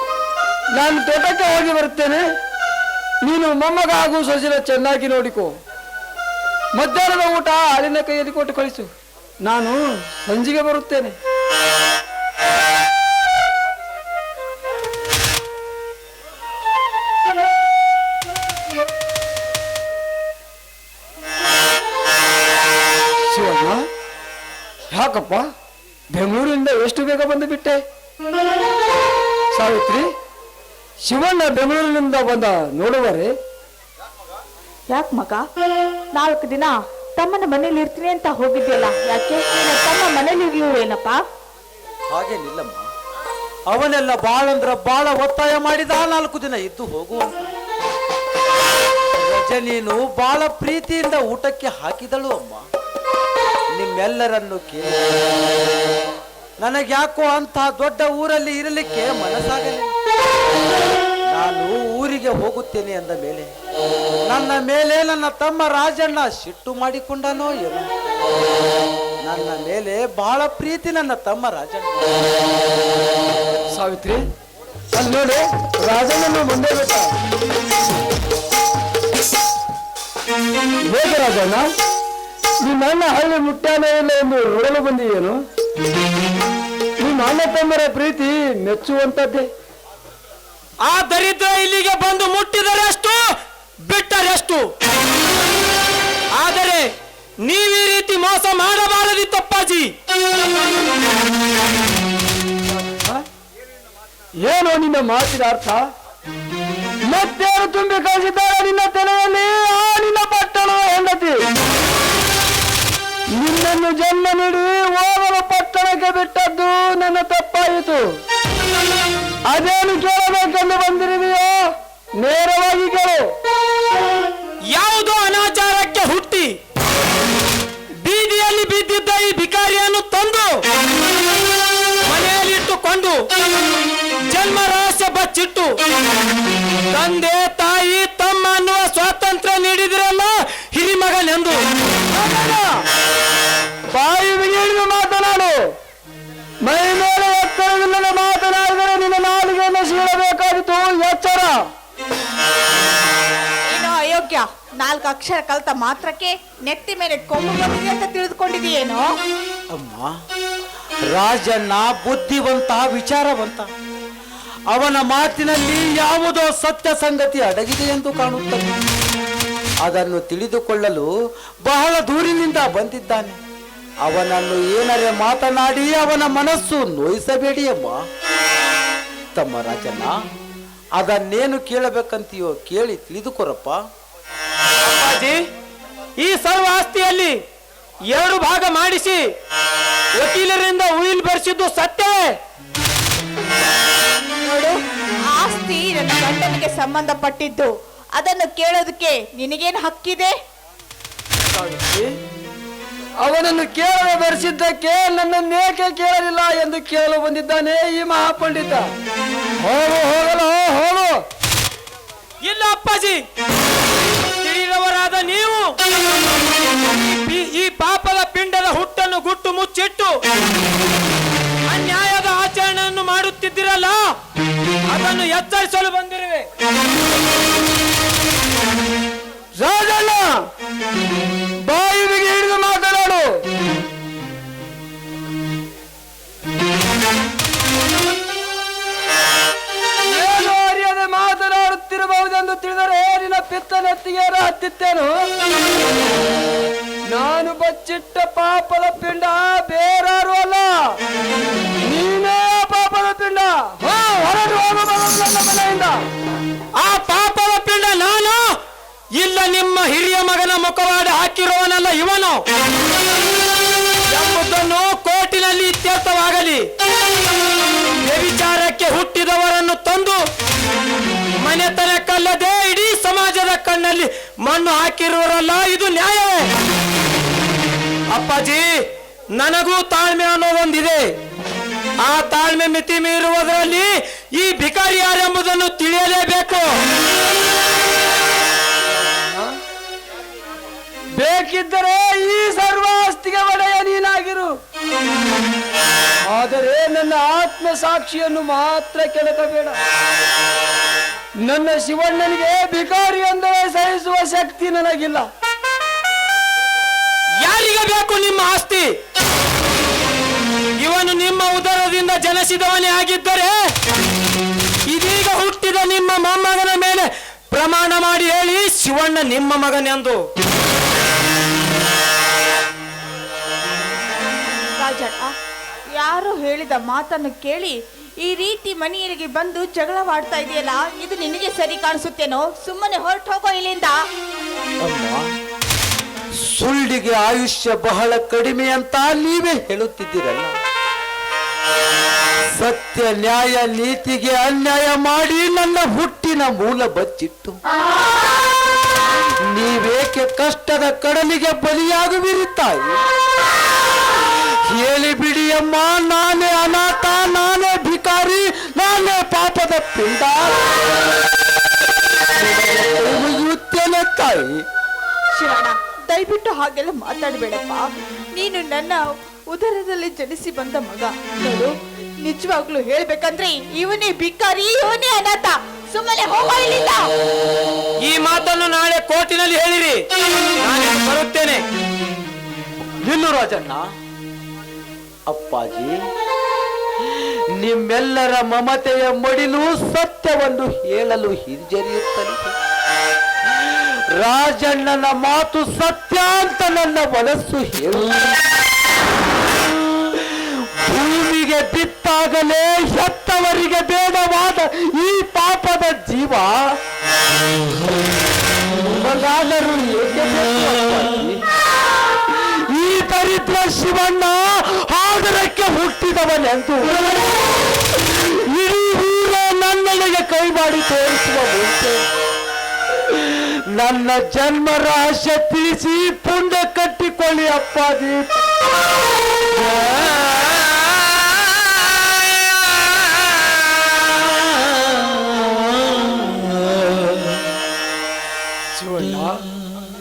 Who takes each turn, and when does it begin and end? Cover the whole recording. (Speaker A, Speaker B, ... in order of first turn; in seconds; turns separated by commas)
Speaker A: 0.7-2.2, Speaker A: 3.2-5.5, Speaker A: 6.7-8.9, Speaker A: 9.4-11.2, Speaker A: 23.2-23.9, Speaker A: 24.9-25.4, Speaker A: 26.1-27.8, Speaker A: 29.5-30.1, Speaker A: 31.0-33.3, Speaker B: 34.9-35.4, Speaker B: 36.1-41.2, Speaker C: 42.1-42.9, Speaker C: 43.7-47.3, Speaker C: 49.2-52.6, Speaker C: 53.7-55.1, Speaker C: 56.6-59.9, Speaker C: 61.3-63.5, Speaker C: 64.3-67.9, Speaker C: 69.2-72.1, Speaker A: 73.7-74.2, Speaker A: 74.9-77.1, Speaker A: 80.8-81.7, Speaker A: 82.6-85.4, Speaker A: 87.0-89.5, Speaker D: 90.8-93.2, Speaker D: 93.9-94.6, Speaker D: 96.4-96.9, Speaker D: 97.4-99.9, Speaker A: 102.8-103.2, Speaker A: 104.4-105.8, Speaker A: 107.0-111.4, Speaker A: 113.3-118.0, Speaker A: 119.5-121.6, Speaker A: 122.2-123.2, Speaker D: 124.7-126.5, Speaker D: 128.0-130.5, Speaker D: 132.1-133.1, Speaker D: 134.3-135.7, Speaker D: 136.9-141.6, Speaker A: 142.1-142.7, Speaker A: 143.9-145.6, Speaker A: 146.6-151.6, Speaker B: 153.7-159.1, Speaker C: 159.7-160.1, Speaker C: 161.1-163.7, Speaker C: 164.7-168.7, Speaker C: 169.8-171.1, Speaker C: 171.6-173.4, Speaker C: 174.1-178.0, Speaker C: 179.3-180.1, Speaker C: 181.0-183.8, Speaker D: 184.8-185.4, Speaker D: 186.2-187.3, Speaker D: 188.1-189.2, Speaker D: 190.2-192.2, Speaker B: 194.4-200.3, Speaker A: 201.5-202.1, Speaker A: 203.2-208.8, Speaker A: 209.6-211.1, Speaker D: 212.4-213.2, Speaker D: 214.2-215.7, Speaker D: 216.8-220.2, Speaker D: 221.7-224.0, Speaker D: 224.9-226.5, Speaker A: 229.6-230.4, Speaker A: 231.6-233.4, Speaker A: 240.1-245.1, Speaker A: 247.1-250.8, Speaker A: 251.8-255.9, Speaker D: 256.8-258.4, Speaker D: 259.2-262.4, Speaker D: 264.1-266.6, Speaker D: 268.0-270.2, Speaker D: 271.4-276.5, Speaker D: 278.1-278.6, Speaker D: 279.3-281.0, Speaker D: 282.0-286.7, Speaker A: 289.1-289.5, Speaker A: 291.1-294.6, Speaker A: 296.2-299.8, Speaker A: 301.4-305.3, Speaker D: 307.4-308.8, Speaker D: 310.8-313.6, Speaker D: 314.9-320.2, Speaker B: 324.6-325.3, Speaker B: 325.9-334.0, Speaker C: 334.8-335.2, Speaker C: 336.4-340.5, Speaker C: 342.6-347.6, Speaker C: 349.4-353.0, Speaker C: 354.6-360.6, Speaker C: 362.3-364.6, Speaker B: 365.3-377.1, Speaker D: 378.1-380.0, Speaker D: 380.6-381.6, Speaker C: 383.0-383.8, Speaker C: 385.3-385.9, Speaker C: 387.1-392.5, Speaker C: 393.6-398.1, Speaker C: 400.1-406.6, Speaker C: 408.7-411.4, Speaker C: 412.3-417.1, Speaker C: 417.9-422.0, Speaker C: 423.0-428.4, Speaker C: 429.5-430.2, Speaker A: 438.7-439.4